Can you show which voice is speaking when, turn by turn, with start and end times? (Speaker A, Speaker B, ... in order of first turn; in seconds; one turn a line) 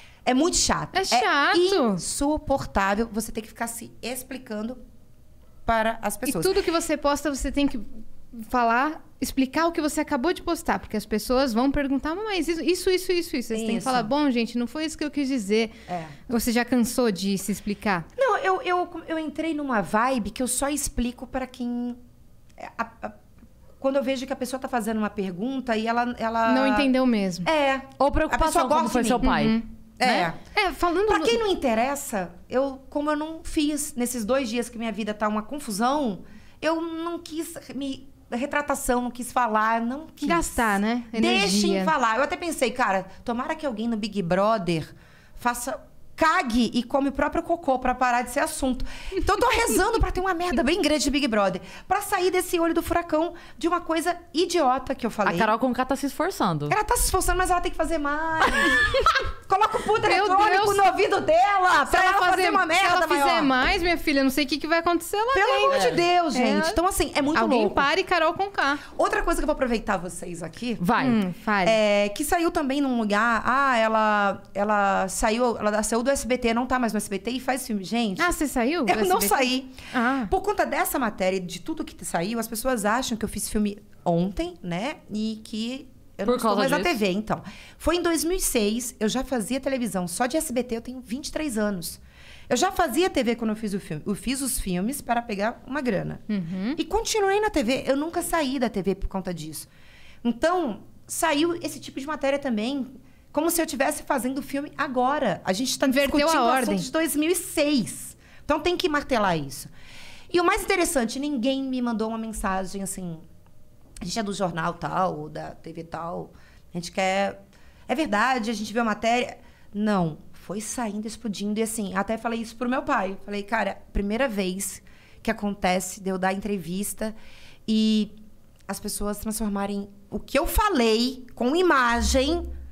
Speaker A: 0.2-4.8
Speaker B: 0.9-2.0
Speaker A: 5.7-6.5
Speaker B: 6.2-15.7
Speaker A: 13.5-14.1
Speaker A: 15.9-16.1
Speaker B: 16.3-18.1
Speaker A: 18.1-22.0
Speaker A: 22.6-23.2
Speaker A: 23.8-26.9
Speaker B: 26.4-27.5
Speaker A: 27.4-29.3
Speaker C: 28.0-29.6
Speaker B: 29.2-31.4
Speaker A: 30.0-30.4
Speaker A: 31.1-40.6
Speaker B: 40.2-41.9
Speaker A: 41.1-55.5
Speaker C: 55.2-56.7
Speaker A: 56.7-63.5
Speaker B: 60.0-60.9
Speaker B: 61.9-66.8
Speaker A: 65.3-67.9
Speaker C: 65.7-66.0
Speaker B: 67.3-68.8
Speaker A: 68.8-70.8
Speaker C: 70.8-71.2
Speaker B: 71.0-71.8
Speaker A: 71.6-78.3
Speaker B: 78.2-80.3
Speaker A: 78.8-96.2
Speaker C: 86.2-87.0
Speaker B: 96.3-96.8
Speaker A: 96.8-99.7
Speaker A: 100.2-109.7
Speaker B: 105.8-106.9
Speaker A: 110.3-113.2
Speaker A: 114.0-127.1
Speaker A: 127.7-128.1
Speaker A: 128.7-132.5